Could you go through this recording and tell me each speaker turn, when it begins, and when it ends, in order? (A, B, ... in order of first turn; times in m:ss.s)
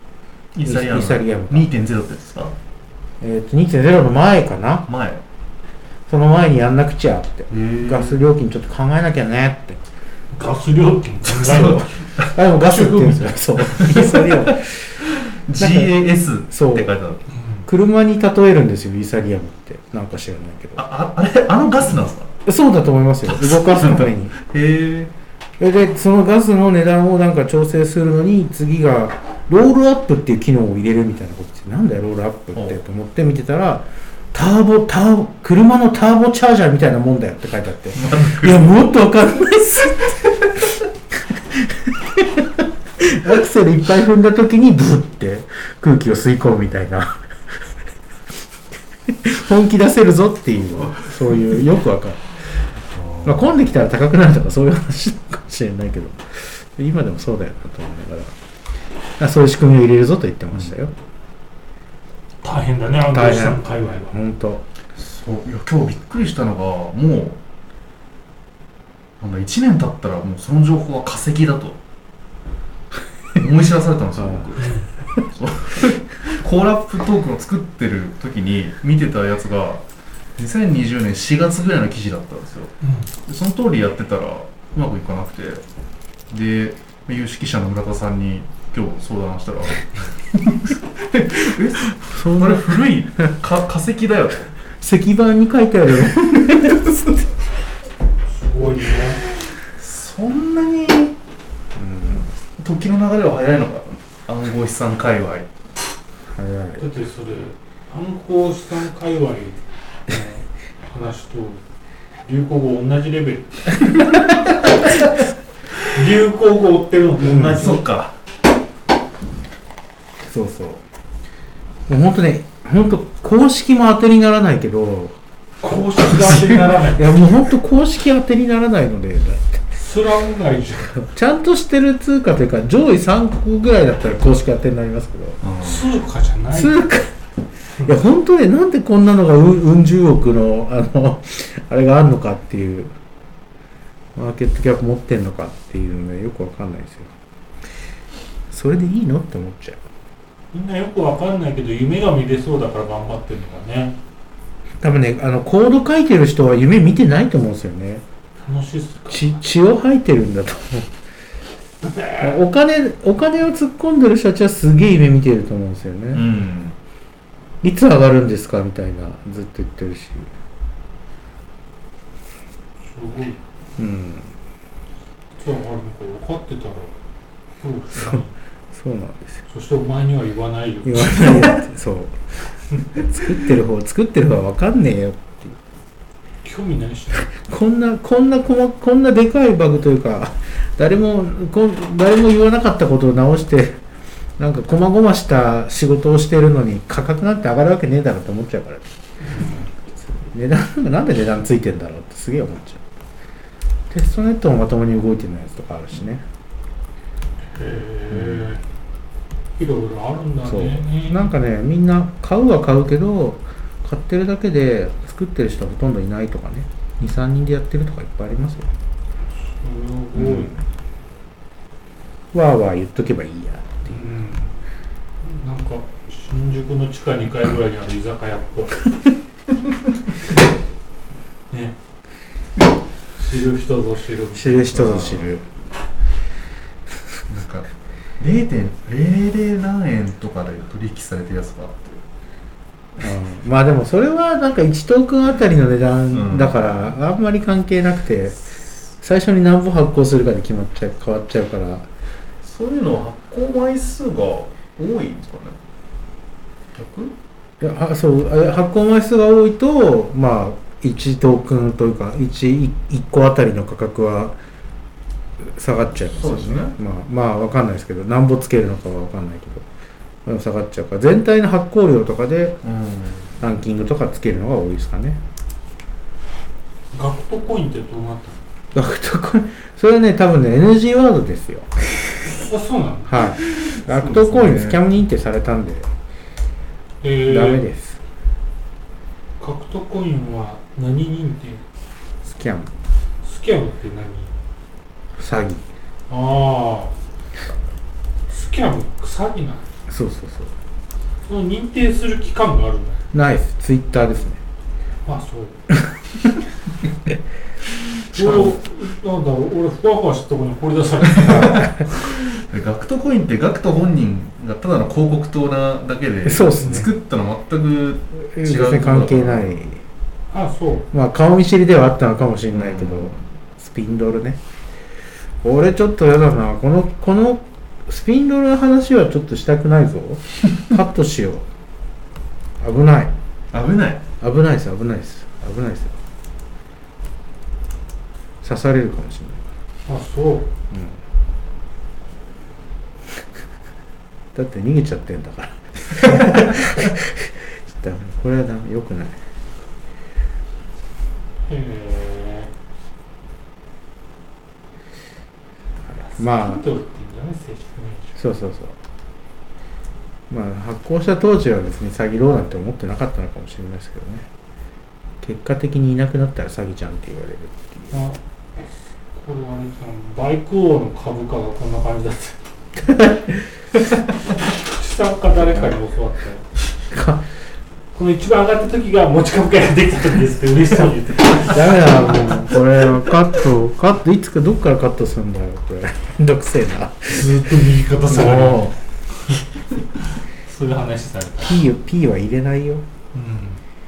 0:00.6-0:02.6 A
0:00.6-0:01.7 B
0:03.2-0:04.9 B
0:04.9-0:05.2 A
0:06.1-0:09.8 B
0:07.5-0:08.2 A
0:10.3-0:11.9 C
0:11.3-0:12.3 A
0:12.2-0:15.0 B
0:12.6-0:13.4 C
0:13.8-0:17.2 A
0:15.6-0:15.9 B
0:16.5-0:16.9 B
0:17.4-0:17.6 C
0:17.6-0:20.8 B
0:20.8-0:22.3 A
0:22.4-0:24.4 B
0:23.3-0:25.1 A
0:25.6-0:40.1 B
0:37.9-0:38.8 A
0:41.5-0:47.2 B
0:49.1-0:52.3 B
0:52.9-0:53.3 A
0:53.2-0:58.3 B
0:59.2-1:00.9 B
1:02.4-1:04.1 C
1:03.1-1:04.6 B
1:05.0-1:07.4 A
1:09.2-1:11.8 A
1:13.4-1:19.8 A
1:14.2-1:14.5 B
1:14.6-1:14.9 C
1:20.4-1:22.7 A
1:22.8-1:23.1 C
1:23.2-1:25.6 A
1:26.3-1:34.5 A
1:32.0-1:33.3 B
1:34.8-1:36.9 B
1:36.5-1:37.1 A
1:38.2-1:39.2 C
1:39.6-1:41.1 A
1:41.8-1:42.3 B
1:42.6-1:45.5 A
1:46.3-1:46.9 B
1:46.8-1:51.6 C
1:52.2-1:53.6 C
1:55.9-1:57.8 C
1:57.2-1:57.8 B
1:57.2-1:58.1 A
2:00.2-2:00.8 B
2:01.9-2:05.1 B
2:05.6-2:07.1 C
2:06.2-2:06.6 A
2:06.9-2:09.6 B
2:09.7-2:10.9 C
2:11.0-2:15.4 B
2:15.4-2:15.9 A
2:15.6-2:16.8 C
2:16.5-2:17.1 B
2:17.8-2:22.9 B
2:24.1-2:27.1 B
2:28.5-2:29.8 B
2:30.5-2:34.0 C
2:34.8-2:38.0 B
2:38.4-2:39.4 C
2:39.1-2:40.9 B
2:41.8-2:42.2 C
2:42.2-2:46.2 B
2:46.1-2:46.8 A
2:47.6-2:50.3 B
2:52.8-2:53.4 C
2:53.8-2:54.3 B
2:55.4-2:57.0 C
2:57.6-2:58.3 C
2:58.7-2:59.4 B
2:59.5-3:01.6 C
3:00.8-3:02.2 B
3:03.0-3:05.6 B
3:06.4-3:07.3 C
3:07.4-3:13.8 B
3:14.4-3:18.9 B
3:19.2-3:19.7 C
3:19.4-3:22.8 B
3:23.9-3:26.2 B
3:27.5-3:28.6 C
3:28.1-3:28.5 B
3:29.6-3:31.3 C
3:30.4-3:38.7 B
3:39.4-3:40.5 C
3:40.1-3:40.6 B
3:42.3-3:44.0 B
3:43.9-3:44.5 C
3:45.2-3:48.9 C
3:51.5-3:51.8 C
3:53.2-3:54.8 C
3:54.3-3:55.4 B
3:54.7-3:55.3 A
3:57.3-4:02.0 A
4:03.0-4:08.4 B
4:06.1-4:06.7 A
4:09.0-4:11.9 B
4:12.4-4:15.6 A
4:16.7-4:17.1 A
4:17.6-4:24.4 B
4:25.4-4:29.6 B
4:26.2-4:26.8 A
4:30.2-4:32.6 B
4:32.6-4:33.3 A
4:33.4-4:35.2 B
4:36.9-4:38.4 C
4:38.7-4:41.7 B
4:42.3-4:43.1 C
4:43.1-4:45.9 B
4:43.4-4:44.8 A
4:47.0-4:47.6 C
4:47.2-4:48.0 B
4:49.4-4:51.6 C
4:52.2-4:52.7 B
4:53.2-4:54.3 C
4:55.2-4:55.6 B
4:56.1-4:56.9 C
4:58.3-4:59.6 C
4:59.9-5:00.5 B
5:01.2-5:03.0 C
5:03.1-5:04.4 B
5:05.0-5:05.6 C
5:08.1-5:11.8 C
5:08.1-5:08.6 B
5:11.1-5:19.6 A
5:11.2-5:11.9 B
5:16.2-5:16.9 B
5:16.6-5:16.9 C
5:18.2-5:19.8 B
5:20.3-5:20.9 C
5:20.9-5:24.4 B
5:22.5-5:23.2 A
5:25.4-5:31.4 B
5:32.6-5:33.1 B
5:33.5-5:34.0 A
5:34.2-5:36.0 B
5:38.4-5:39.4 B
5:39.9-5:40.5 C
5:40.7-5:41.0 B
5:44.3-5:49.2 B
5:51.4-5:52.5 C
5:56.0-5:56.6 B
5:56.0-5:58.2 C
5:58.2-5:58.8 B
6:00.3-6:04.2 B
6:05.2-6:08.0 B
6:07.9-6:12.4 C
6:12.8-6:13.5 B
6:14.4-6:16.4 C
6:16.9-6:17.2 B
6:17.9-6:22.5 C
6:21.3-6:27.5 B
6:27.1-6:28.7 C
6:28.0-6:28.8 B
6:29.9-6:31.6 C
6:31.4-6:32.8 B
6:33.1-6:33.6 C